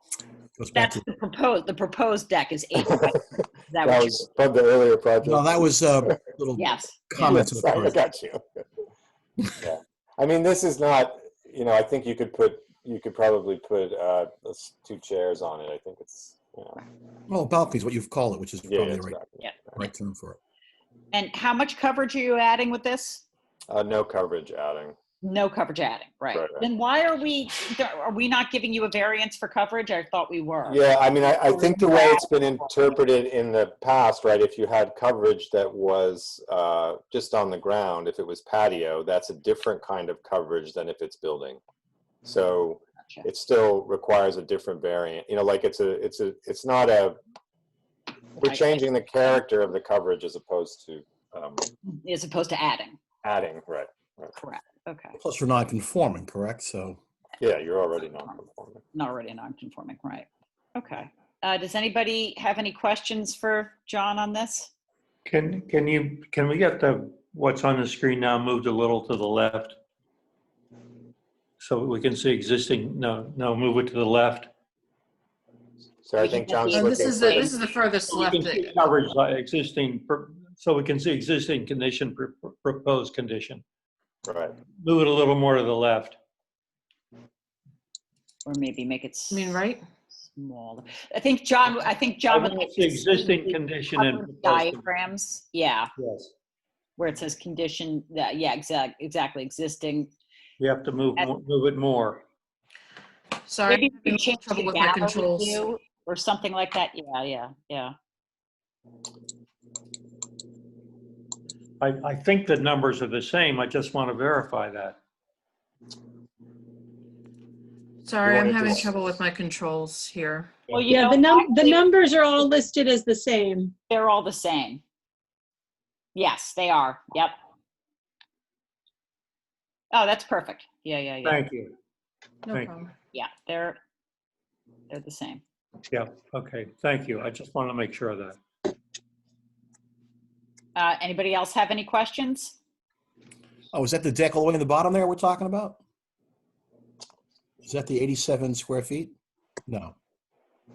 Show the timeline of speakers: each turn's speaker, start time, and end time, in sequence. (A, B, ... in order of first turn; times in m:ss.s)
0:00.6-0:01.0 A
0:00.8-0:04.2 B
0:03.8-0:06.2 C
0:05.2-0:08.0 A
0:06.6-0:07.0 B
0:07.2-0:08.4 C
0:09.6-0:16.8 C
0:17.3-0:19.2 A
0:18.6-0:19.9 C
0:19.8-0:20.4 A
0:21.1-0:23.2 B
0:23.7-0:25.0 C
0:25.2-0:33.0 B
0:26.3-0:26.6 C
0:30.7-0:41.6 C
0:42.2-0:47.2 C
0:48.4-0:48.8 B
0:48.4-0:51.7 C
0:52.0-0:53.0 B
0:53.2-0:54.4 C
0:54.4-0:55.2 B
0:55.2-0:57.0 A
0:57.4-0:58.8 C
0:58.9-1:04.7 B
1:05.3-1:09.8 D
1:11.6-1:14.5 D
1:16.0-1:17.6 C
1:16.2-1:17.6 B
1:16.7-1:18.9 E
1:18.1-1:23.6 D
1:24.3-1:24.5 C
1:24.8-1:26.2 D
1:28.5-1:29.6 B
1:29.3-1:29.8 E
1:30.2-1:35.9 B
1:32.3-1:34.8 D
1:36.0-1:36.3 D
1:37.0-1:40.1 B
1:40.6-1:42.2 D
1:43.5-1:45.7 E
1:43.7-1:47.9 B
1:51.8-1:55.0 D
1:58.0-2:00.5 E
1:58.3-1:58.9 C
2:00.7-2:01.9 B
2:00.9-2:03.7 F
2:03.9-2:04.8 B
2:06.2-2:07.3 B
2:09.9-2:11.4 B
2:11.2-2:11.8 D
2:12.5-2:12.9 E
2:13.1-2:13.8 B
2:14.9-2:15.4 B
2:15.9-2:18.4 D
2:20.8-2:22.6 B
2:23.7-2:25.8 A
2:27.6-2:29.1 A
2:29.7-2:30.0 A